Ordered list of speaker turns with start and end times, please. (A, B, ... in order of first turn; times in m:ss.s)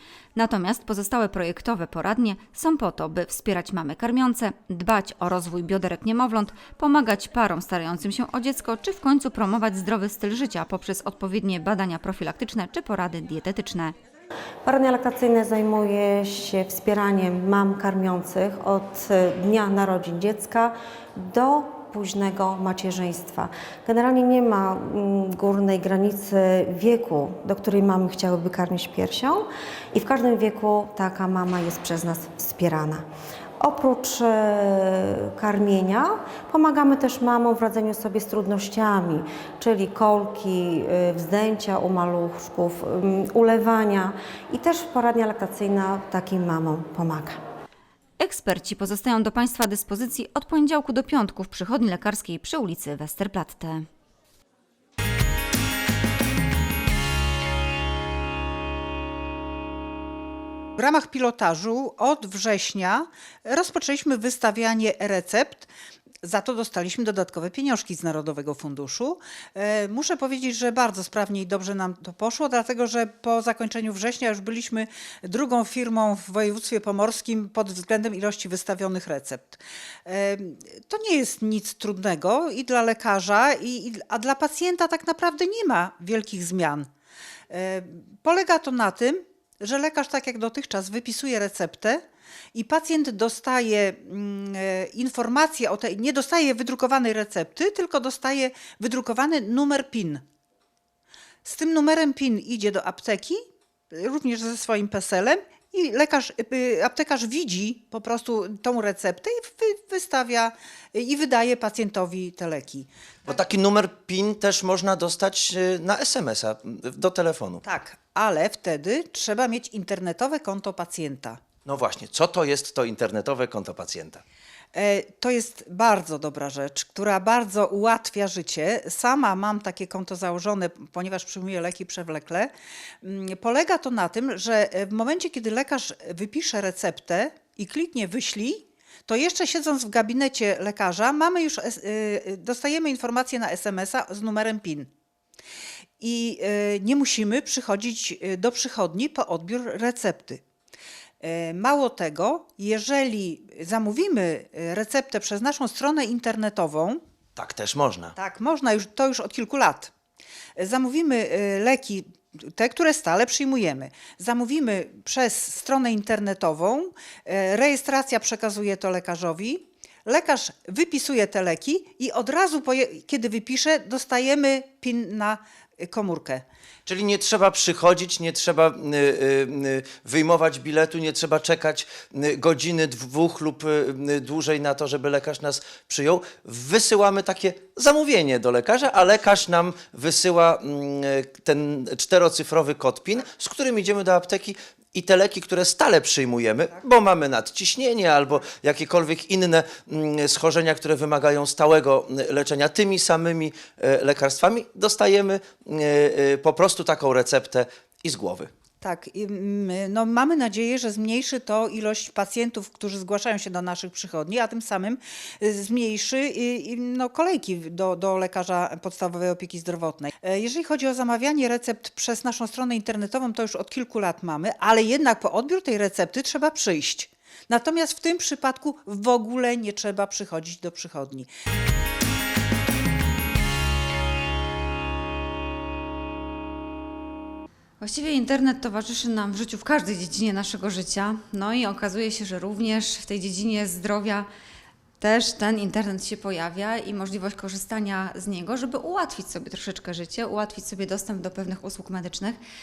0:00.3-0:13.9 A
0:14.6-0:33.0 B
0:33.6-0:47.4 B
0:48.2-0:53.8 A
1:00.8-1:05.7 C
1:06.2-1:26.9 C
1:27.5-1:32.0 C
1:32.5-1:40.2 C
1:41.4-1:43.4 C
1:43.9-1:52.9 C
1:53.2-1:57.6 D
1:57.6-2:01.4 C
2:01.6-2:04.2 D
2:04.7-2:12.5 C
2:13.0-2:24.9 C
2:26.0-2:30.4 C
2:31.2-2:37.0 C
2:37.4-2:38.1 D
2:38.2-2:39.9 C
2:40.6-2:56.4 C
2:56.8-3:28.5 D
3:28.8-3:51.3 C
3:57.8-4:04.3 A
4:05.0-4:12.4 A